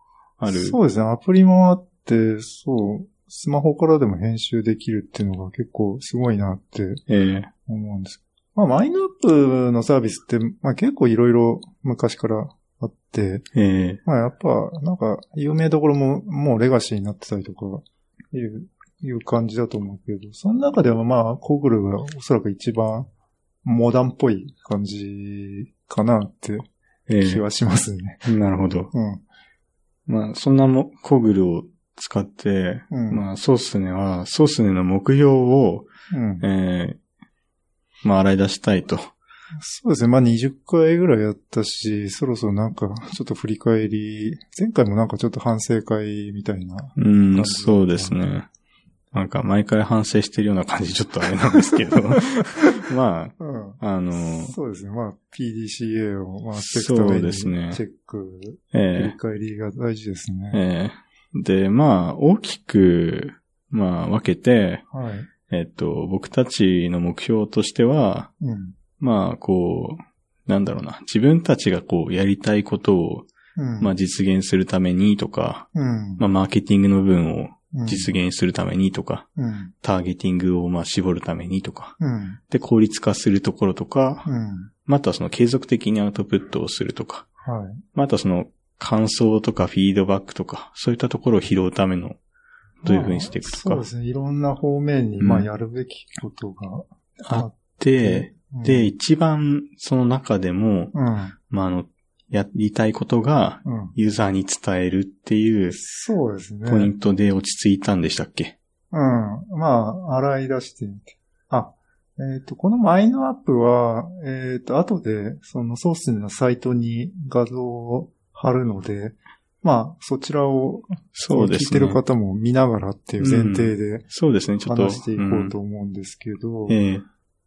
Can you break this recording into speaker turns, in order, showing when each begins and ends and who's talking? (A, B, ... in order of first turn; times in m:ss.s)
0:00.4-0:00.8 A
0:00.5-0:07.0 B
0:07.1-0:07.5 A
0:07.7-0:13.4 B
0:13.5-0:14.0 A
0:14.0-0:23.1 B
0:23.6-0:26.7 B
0:27.1-0:27.4 A
0:27.2-0:28.2 B
0:28.2-0:28.9 A
0:28.9-0:29.2 B
0:30.1-0:37.0 A
0:32.9-0:33.2 B
0:36.1-0:36.4 B
0:38.0-0:39.1 A
0:39.6-0:48.2 B
0:47.0-0:48.5 A
0:49.1-0:54.6 A
0:53.4-1:00.6 B
0:56.5-0:57.8 A
0:58.7-0:59.1 A
1:00.5-1:04.8 A
1:04.9-1:05.3 B
1:05.5-1:08.3 A
1:08.4-1:08.8 B
1:09.0-1:19.3 A
1:13.6-1:13.9 B
1:15.7-1:16.2 B
1:17.7-1:18.1 B
1:19.4-1:19.7 B
1:19.8-1:22.0 A
1:22.0-1:22.4 B
1:22.5-1:24.3 A
1:24.2-1:24.7 B
1:24.8-1:27.3 A
1:27.4-1:27.8 B
1:27.9-1:32.2 A
1:32.8-1:33.8 A
1:32.8-1:38.9 B
1:35.2-1:35.5 A
1:37.2-1:40.9 A
1:40.9-1:41.3 B
1:41.5-1:45.9 A
1:43.6-1:43.9 B
1:45.9-1:46.9 B
1:46.6-1:48.5 A
1:48.9-2:04.1 B
2:01.1-2:02.0 A
2:03.2-2:05.5 A
2:04.6-2:06.8 B
2:06.7-2:07.0 A